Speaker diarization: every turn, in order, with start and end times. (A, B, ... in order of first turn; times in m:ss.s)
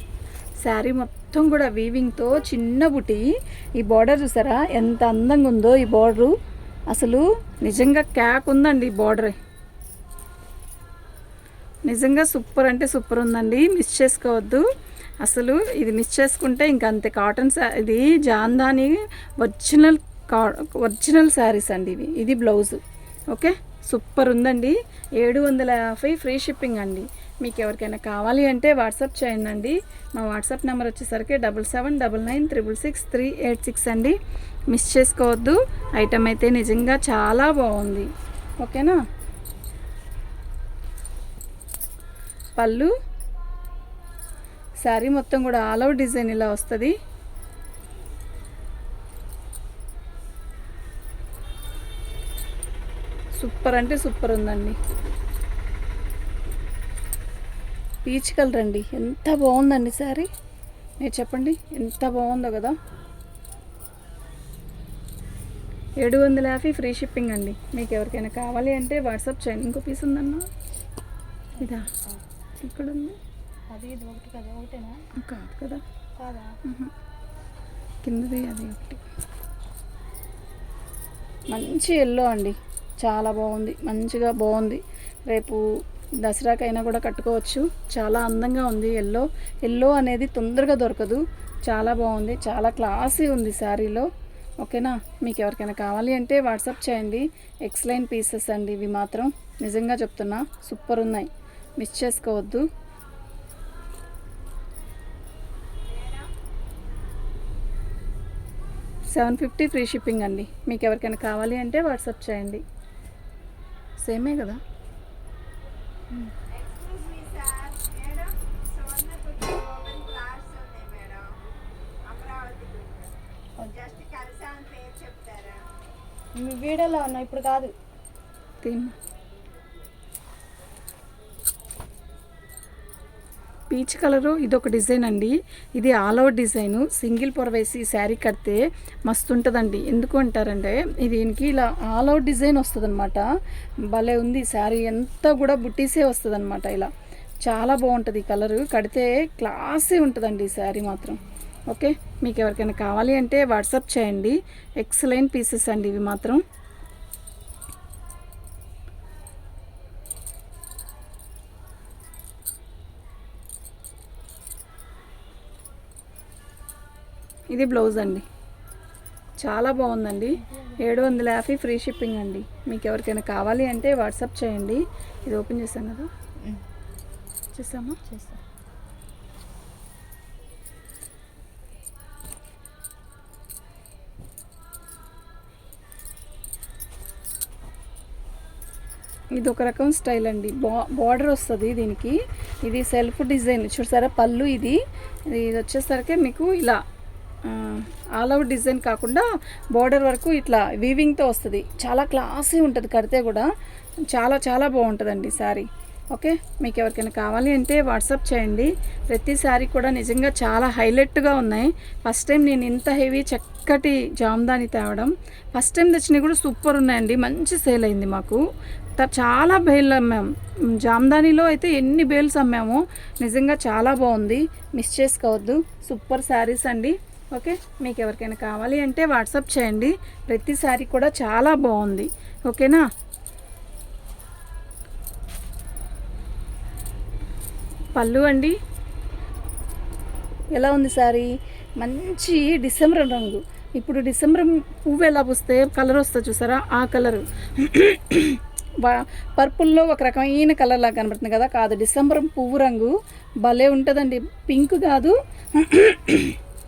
0:00.6-0:06.3 A
0:06.9-0:09.4 A
0:11.8-0:14.6 A
0:15.2-0:22.8 A
0:23.3-0:34.2 A
0:34.7-0:38.1 A
0:38.6-0:39.0 A
0:42.6-0:42.9 A
0:44.8-0:47.0 A
0:53.4-0:54.8 A
0:58.0-1:00.3 A
1:01.0-1:02.8 A
1:06.0-1:10.4 A
1:11.6-1:11.9 A
1:11.6-1:12.2 B
1:12.6-1:13.2 A
1:13.7-1:15.0 B
1:15.1-1:15.8 A
1:16.2-1:16.6 B
1:16.6-1:16.9 A
1:18.0-1:19.0 A
1:21.5-1:25.6 A
1:26.2-1:34.1 A
1:34.6-1:42.7 A
1:45.9-1:46.3 C
1:49.1-1:52.6 A
1:54.0-1:54.6 A
1:56.5-2:01.4 C
2:02.0-2:03.1 C
2:03.6-2:03.9 B
2:03.9-2:05.6 C
2:06.3-2:07.7 B
2:08.6-2:08.9 A
2:13.7-2:23.3 A
2:23.9-2:26.9 A
2:27.4-2:36.4 A
2:47.5-2:48.2 A
2:49.4-2:56.1 A
2:50.4-2:51.2 B
2:57.5-2:58.0 A
2:58.1-2:58.4 B
3:09.4-3:16.8 A
3:17.4-3:23.5 A
3:24.1-3:38.4 A
3:39.0-3:52.8 A
3:58.0-3:58.6 A
4:00.5-4:16.4 A